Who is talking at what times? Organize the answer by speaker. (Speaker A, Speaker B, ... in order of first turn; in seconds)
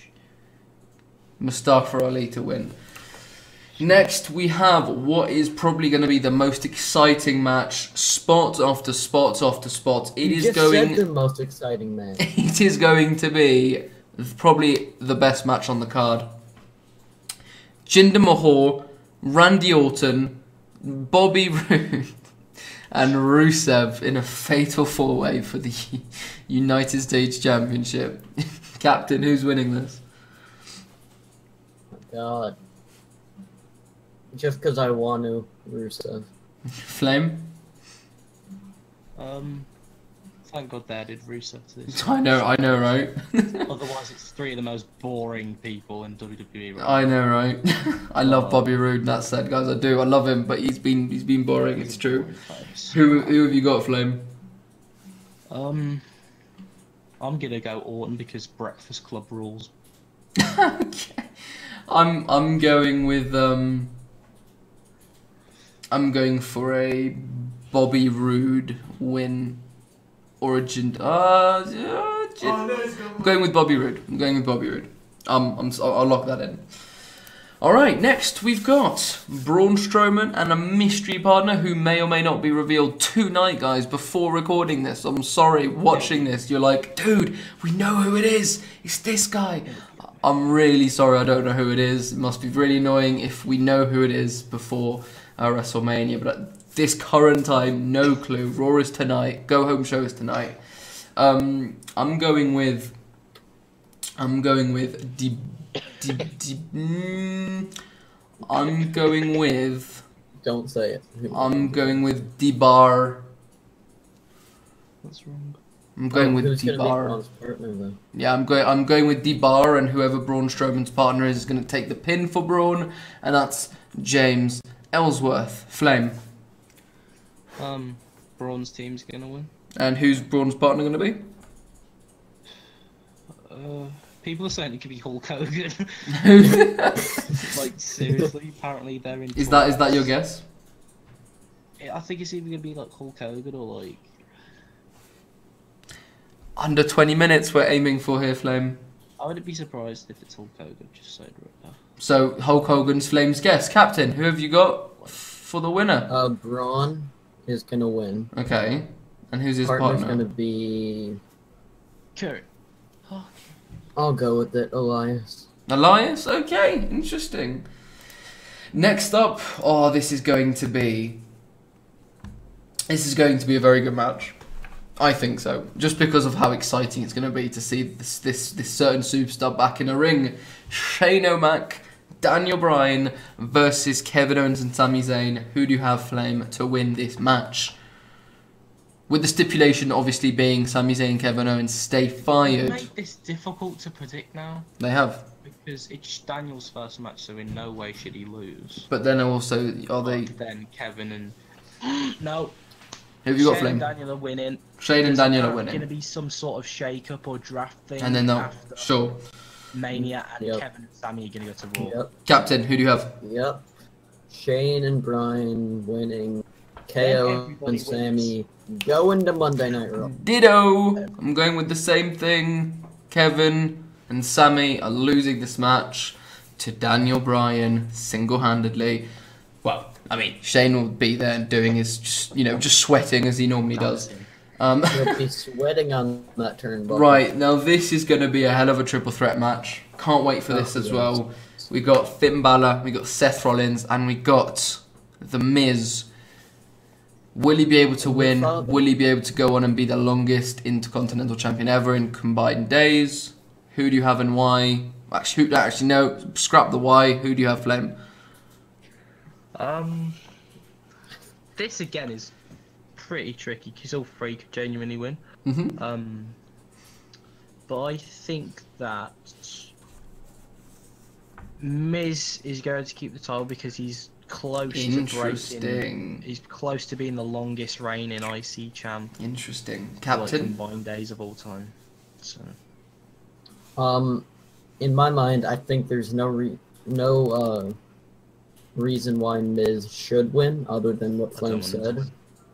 Speaker A: 1.4-2.8, 3.8-11.0, 12.2-16.3, 17.9-22.1, 22.9-28.2, 28.8-30.0, 36.8-37.5, 41.9-43.6, 46.8-52.3, 52.9-54.2, 60.4-61.3, 61.9-63.9, 65.9-69.6, 70.4-76.6, 77.6-89.7, 90.2-100.6, 101.2-102.9, 104.2-107.7, 108.4-110.0, 111.3-113.2, 116.0-117.2, 118.1-126.2, 129.8-131.2, 136.1-137.5, 139.3-140.4, 146.6-148.8, 152.0-156.1, 158.3-160.2, 165.7-167.7, 168.7-171.2, 172.9-174.4, 175.0-187.8, 189.1-192.9, 194.8-195.2, 198.9-200.3, 203.2-203.9, 204.8-205.9, 208.0-209.2, 212.2-213.1, 220.0-229.1, 229.6-235.2, 236.9-246.1, 247.3-257.9, 265.4-265.8, 274.7-276.2, 279.2-280.5
Speaker B: 10.2-12.2, 31.9-32.6, 34.3-36.3, 110.4-112.3, 116.1-118.0, 156.1-158.3, 159.6-161.2, 163.9-165.5, 209.9-210.6, 211.8-212.1, 213.2-213.6, 214.3-220.1, 234.9-237.2, 240.5-241.2, 248.0-248.8, 283.8-284.3, 284.8-287.8, 288.8-292.1
Speaker C: 39.2-39.7, 40.5-42.7, 43.6-47.1, 48.2-48.7, 51.5-53.0, 55.5-56.0, 57.2-59.7, 85.9-86.3, 89.6-90.3, 115.0-115.6, 127.6-129.5, 133.4-136.0, 137.3-140.1, 141.8-144.1, 149.2-151.8, 162.2-162.5, 163.1-163.5, 192.4-194.7, 195.4-198.9, 200.0-202.6, 203.4-208.9, 209.7-212.0, 217.0-218.3, 233.7-234.3, 259.5-260.2, 261.6-262.3, 262.9-265.2, 265.8-266.4, 267.7-269.7, 271.6-279.1, 280.1-282.6, 291.3-292.1